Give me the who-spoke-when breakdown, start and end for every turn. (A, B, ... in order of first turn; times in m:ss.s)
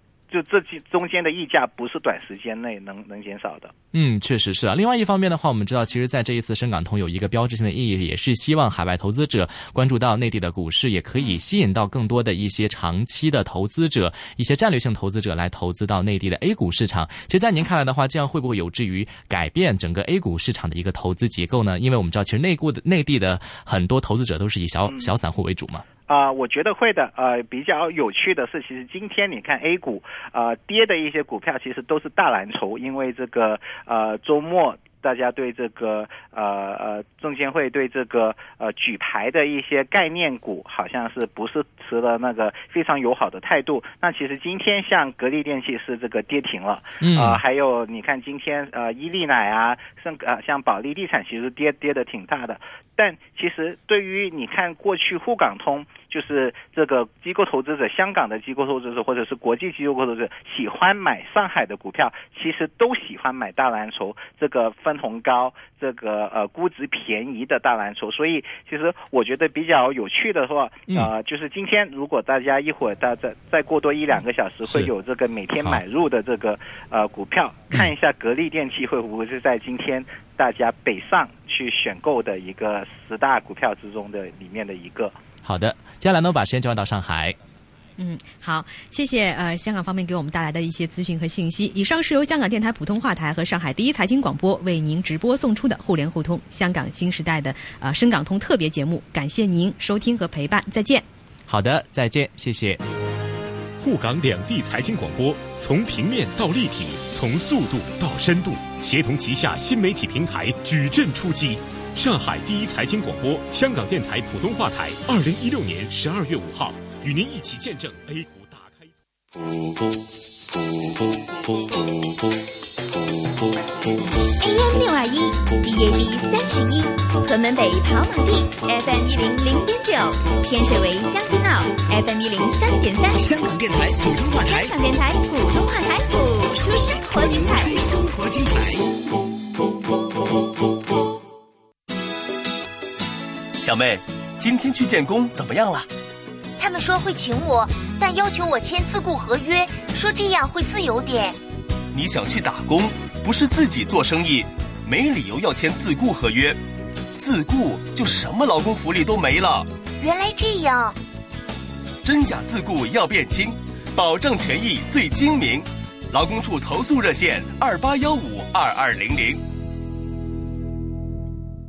0:00.3-0:03.7 A
0:03.9-0:25.9 B
0:26.1-1:25.2 A
0:47.0-0:47.4 B
1:25.4-1:27.4 B
1:28.0-1:41.0 C
1:41.5-1:42.8 B
1:43.8-1:59.0 D
2:04.4-2:13.2 E
2:13.2-2:14.7 F
2:14.4-2:17.9 E
2:16.9-2:18.8 F
2:23.6-2:25.9 G
2:26.6-2:29.2 H
2:29.2-2:29.6 E
2:30.0-2:31.3 H
2:31.9-2:36.6 G
2:37.2-2:39.7 G
2:40.0-2:40.9 H
2:42.0-2:49.4 G